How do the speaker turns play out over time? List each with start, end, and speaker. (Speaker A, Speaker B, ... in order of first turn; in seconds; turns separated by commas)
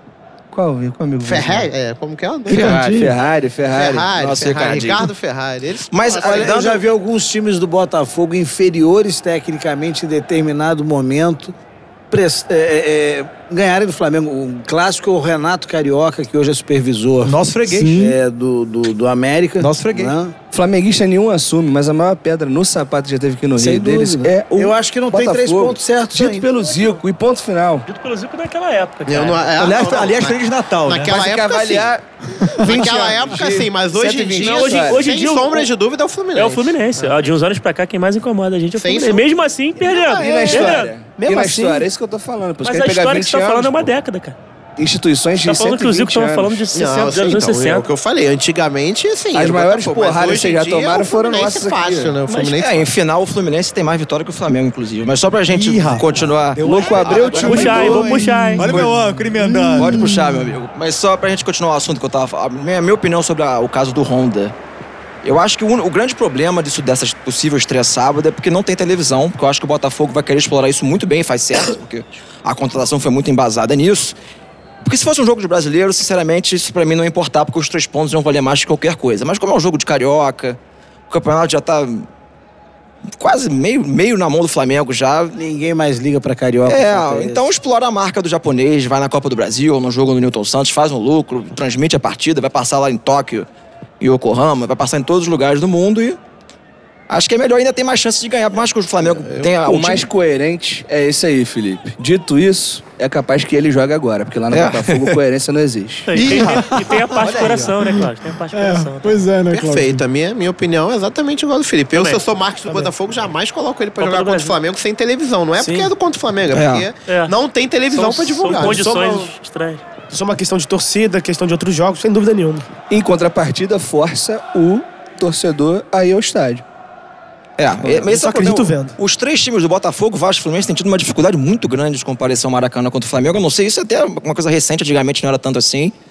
Speaker A: 0.5-1.7, Speaker B: 1.2-3.1, Speaker C: 2.5-3.1, Speaker D: 2.5-3.1, Speaker A: 2.5-4.3, Speaker B: 3.7-6.6, Speaker D: 4.2-5.1, Speaker D: 5.9-6.8, Speaker E: 6.2-11.6, Speaker E: 12.1-17.4, Speaker F: 17.2-18.1, Speaker C: 17.7-18.2, Speaker E: 17.9-20.4, Speaker F: 19.6-20.2, Speaker A: 20.5-27.9, Speaker E: 23.6-26.5, Speaker G: 26.6-27.0, Speaker G: 27.9-29.4, Speaker B: 29.1-31.9, Speaker F: 29.6-31.2, Speaker A: 31.1-32.0, Speaker A: 32.6-35.1, Speaker B: 32.6-37.1, Speaker G: 34.4-35.7, Speaker G: 36.4-40.9, Speaker B: 38.8-39.2, Speaker B: 39.9-40.7, Speaker A: 40.1-43.9, Speaker H: 40.2-41.9, Speaker G: 42.6-44.4, Speaker A: 44.8-46.7, Speaker G: 45.4-47.9, Speaker B: 46.7-52.9, Speaker A: 49.3-52.2, Speaker D: 52.3-57.9, Speaker F: 55.5-60.1, Speaker A: 56.6-59.0, Speaker G: 57.4-58.7, Speaker D: 59.8-64.5, Speaker D: 65.2-74.2, Speaker D: 74.8-80.6, Speaker D: 81.1-82.1, Speaker D: 83.2-85.4, Speaker E: 85.3-87.5, Speaker D: 86.7-93.5, Speaker D: 94.0-96.2, Speaker D: 97.1-100.1, Speaker B: 99.0-99.5, Speaker A: 99.7-106.3, Speaker D: 104.5-105.2, Speaker G: 106.1-109.2, Speaker F: 106.1-107.8, Speaker C: 108.5-110.0, Speaker B: 109.5-119.1, Speaker G: 111.9-112.2, Speaker G: 114.0-114.6, Speaker H: 115.6-115.9, Speaker D: 116.5-116.9, Speaker G: 117.1-117.3, Speaker G: 117.9-119.8, Speaker H: 118.6-119.3, Speaker H: 120.1-122.7, Speaker A: 122.9-126.6, Speaker D: 127.6-135.9, Speaker A: 127.8-128.2, Speaker H: 128.1-129.0